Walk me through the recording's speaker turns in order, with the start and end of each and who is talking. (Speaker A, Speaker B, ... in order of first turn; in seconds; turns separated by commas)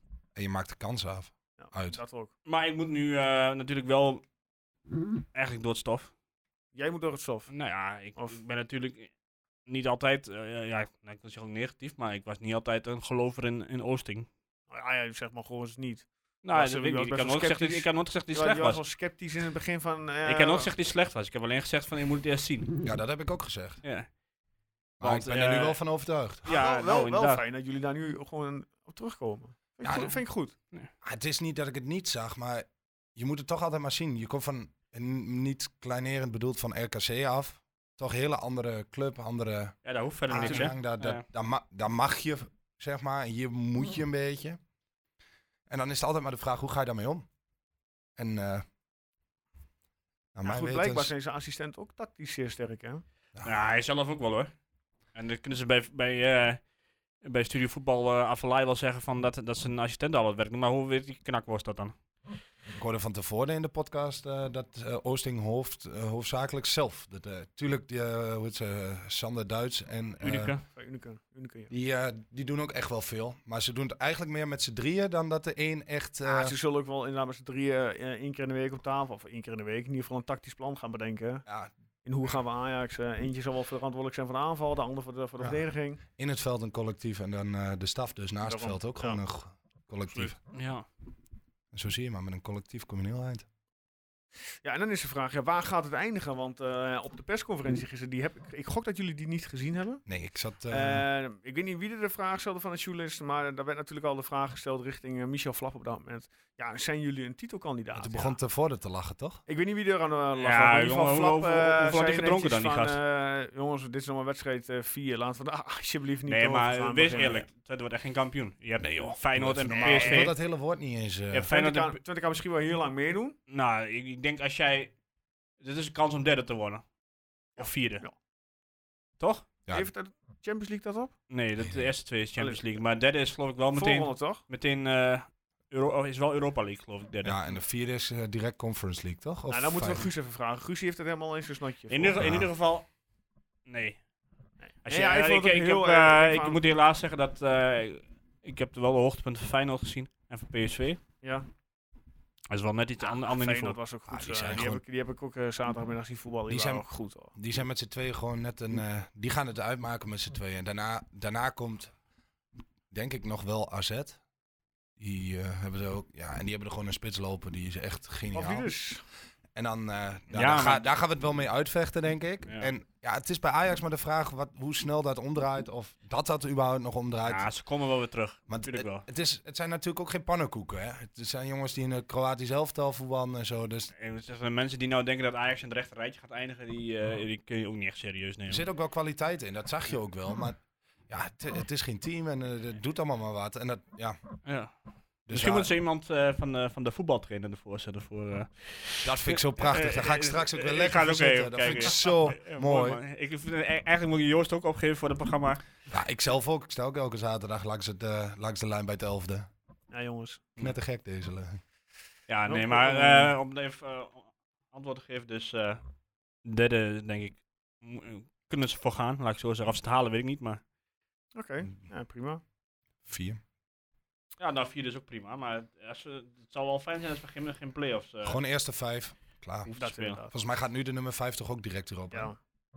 Speaker A: 0.3-2.0, Speaker B: 1.6-2.3, Speaker C: 2.5-4.2, Speaker C: 5.3-6.1, Speaker B: 6.7-7.5, Speaker C: 7.5-9.1, Speaker C: 9.7-14.3, Speaker B: 14.7-20.7, Speaker C: 16.4-18.8, Speaker C: 20.2-22.8, Speaker A: 22.8-23.8, Speaker A: 25.0-26.4, Speaker C: 25.0-25.8, Speaker C: 26.4-27.4, Speaker B: 26.4-30.5, Speaker A: 29.8-30.1, Speaker A: 31.0-39.8, Speaker C: 39.8-41.2, Speaker A: 40.3-44.6, Speaker B: 40.3-40.7, Speaker A: 45.7-47.2, Speaker A: 48.2-48.6, Speaker A: 50.3-51.1, Speaker B: 50.4-53.0, Speaker C: 53.4-54.5, Speaker C: 55.1-56.6, Speaker C: 57.2-61.9, Speaker A: 62.7-70.5, Speaker C: 70.2-70.6, Speaker B: 70.7-71.7, Speaker A: 71.7-76.5, Speaker B: 76.2-81.4, Speaker A: 81.5-81.7, Speaker B: 82.0-86.0, Speaker A: 85.4-90.4, Speaker B: 88.4-89.2, Speaker C: 90.5-90.8, Speaker A: 91.7-93.5, Speaker B: 94.6-100.0, Speaker A: 100.0-101.0, Speaker B: 100.7-108.3, Speaker A: 107.9-109.4, Speaker B: 109.5-117.5, Speaker C: 110.4-113.0, Speaker C: 116.2-120.3, Speaker A: 118.8-121.5, Speaker B: 119.7-120.3, Speaker C: 121.3-122.0, Speaker B: 121.5-123.4, Speaker C: 123.5-124.9, Speaker C: 125.6-126.8, Speaker C: 127.6-128.0, Speaker B: 127.6-128.1, Speaker C: 129.2-129.4, Speaker B: 129.7-131.1, Speaker C: 131.3-137.4, Speaker A: 131.6-131.9, Speaker B: 132.4-132.6, Speaker B: 133.7-134.4, Speaker A: 137.2-140.1, Speaker B: 139.5-142.2, Speaker C: 141.9-142.9, Speaker A: 142.2-142.5, Speaker C: 143.7-144.0, Speaker B: 144.7-146.6, Speaker C: 144.8-151.0, Speaker B: 151.2-151.5, Speaker C: 152.5-153.8, Speaker B: 153.0-157.3, Speaker A: 154.1-154.8, Speaker A: 156.5-161.9, Speaker A: 162.9-164.2, Speaker A: 165.0-168.7, Speaker B: 168.3-169.0, Speaker A: 169.5-177.5, Speaker C: 170.3-170.8, Speaker C: 177.2-179.0, Speaker A: 178.5-183.9, Speaker C: 183.9-188.6, Speaker A: 188.5-194.2, Speaker C: 194.4-194.7, Speaker A: 195.3-195.7, Speaker C: 195.3-205.6, Speaker A: 199.0-203.0, Speaker A: 205.9-209.5, Speaker B: 209.9-210.4, Speaker A: 210.6-211.6, Speaker C: 212.3-215.8, Speaker B: 212.5-213.3, Speaker C: 216.4-220.6, Speaker B: 221.3-222.4, Speaker A: 223.1-223.4, Speaker C: 224.4-228.4, Speaker A: 228.2-229.7, Speaker C: 229.7-230.2, Speaker B: 229.8-230.3, Speaker A: 230.3-232.3, Speaker B: 232.1-232.4